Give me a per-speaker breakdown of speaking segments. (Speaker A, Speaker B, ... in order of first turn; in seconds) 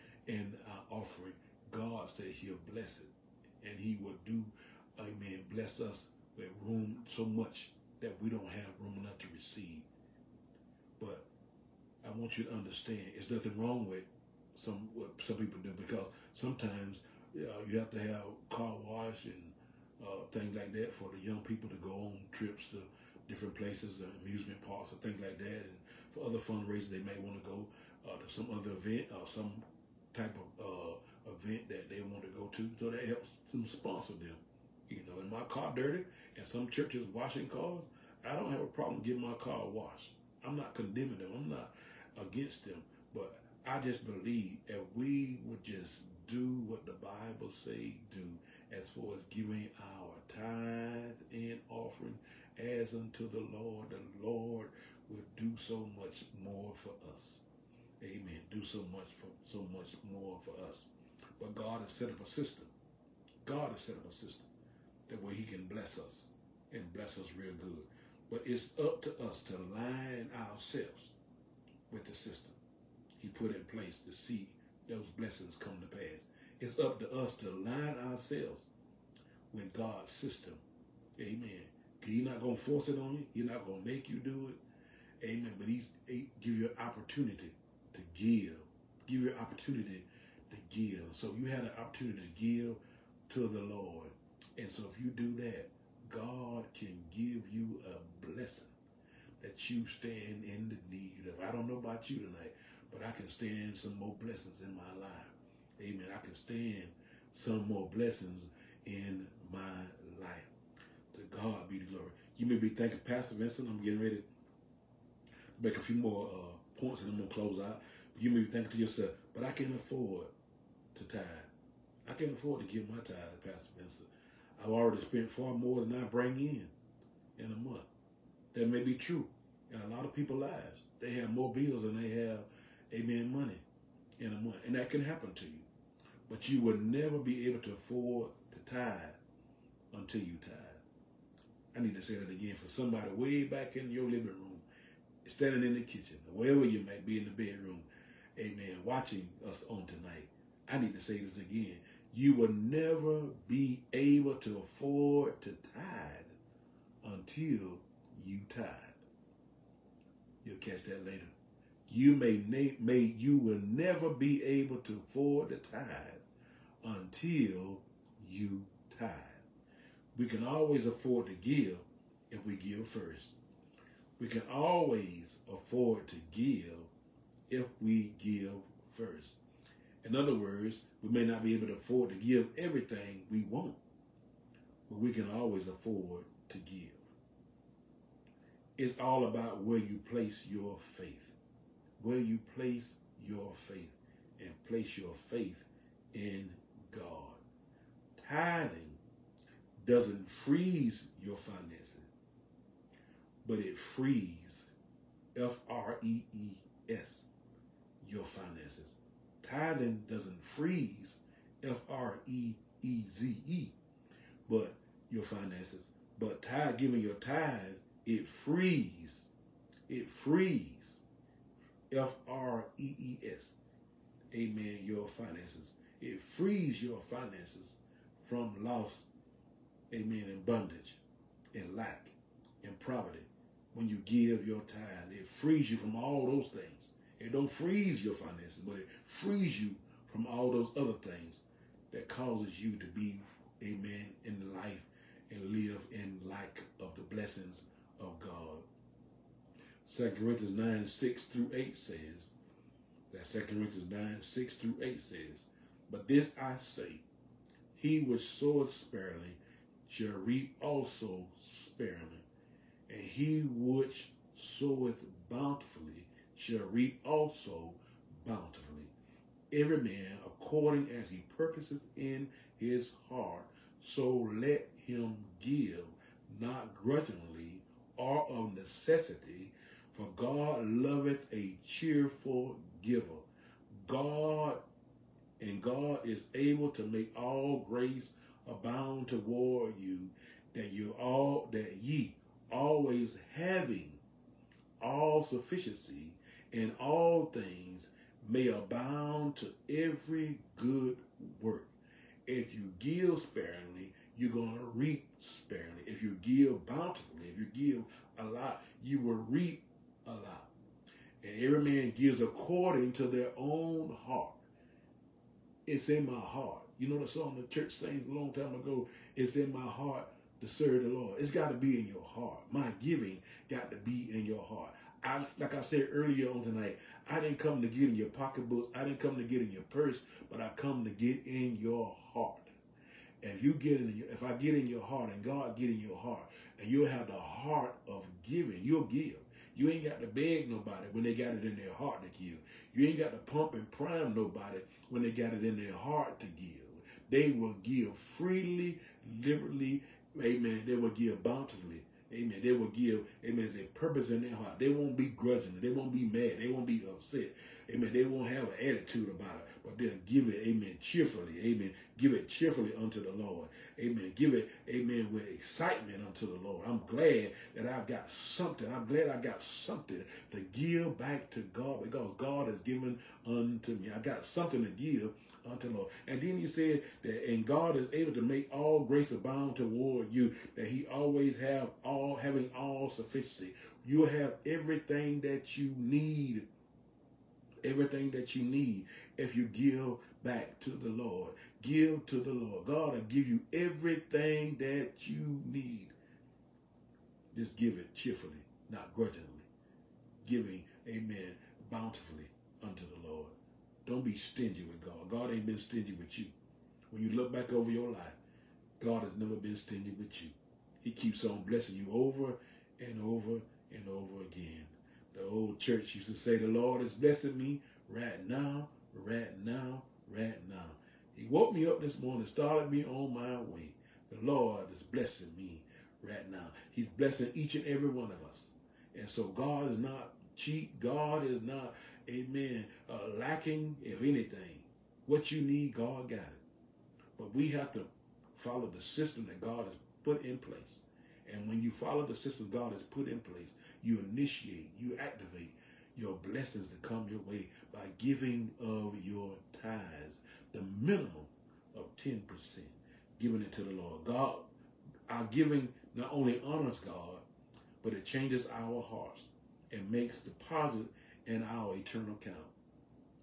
Speaker A: 0.3-9.9, 11.0-11.3, 12.0-57.5, 58.0-62.7, 63.4-64.5, 65.1-71.2, 71.9-72.6, 73.2-78.7, 79.5-80.6, 81.2-84.6, 85.2-98.7, 99.4-110.5, 111.1-114.3, 115.6-120.3, 121.0-121.5, 122.0-126.7, 127.4-127.9, 128.5-133.6, 134.2-135.7, 136.3-139.2, 139.9-140.8, 141.7-144.7, 145.2-156.4, 157.0-159.1, 160.4-161.3, 161.9-166.2, 166.8-169.4, 170.2-173.4, 174.2-176.9, 177.5-179.4, 180.0-183.8, 184.9-187.1, 188.8-191.4, 192.0-197.4, 198.2-199.0, 199.8-202.1, 203.4-204.8, 205.3-207.3, 208.0-213.8, 214.5-219.3, 219.9-221.1, 221.9-223.6, 224.3-229.1, 229.9-231.0, 231.5-248.7, 249.8-252.3, 253.1-257.1, 257.7-262.3, 262.9-268.9, 269.5-284.6, 285.4-294.0, 294.8-301.7, 302.3-310.5, 311.2-314.4, 315.7-332.5, 333.2-386.5, 387.6-395.9, 397.3-399.5, 400.2-406.3, 406.9-408.2, 408.8-436.4, 437.2-454.5, 455.1-457.2, 457.8-462.5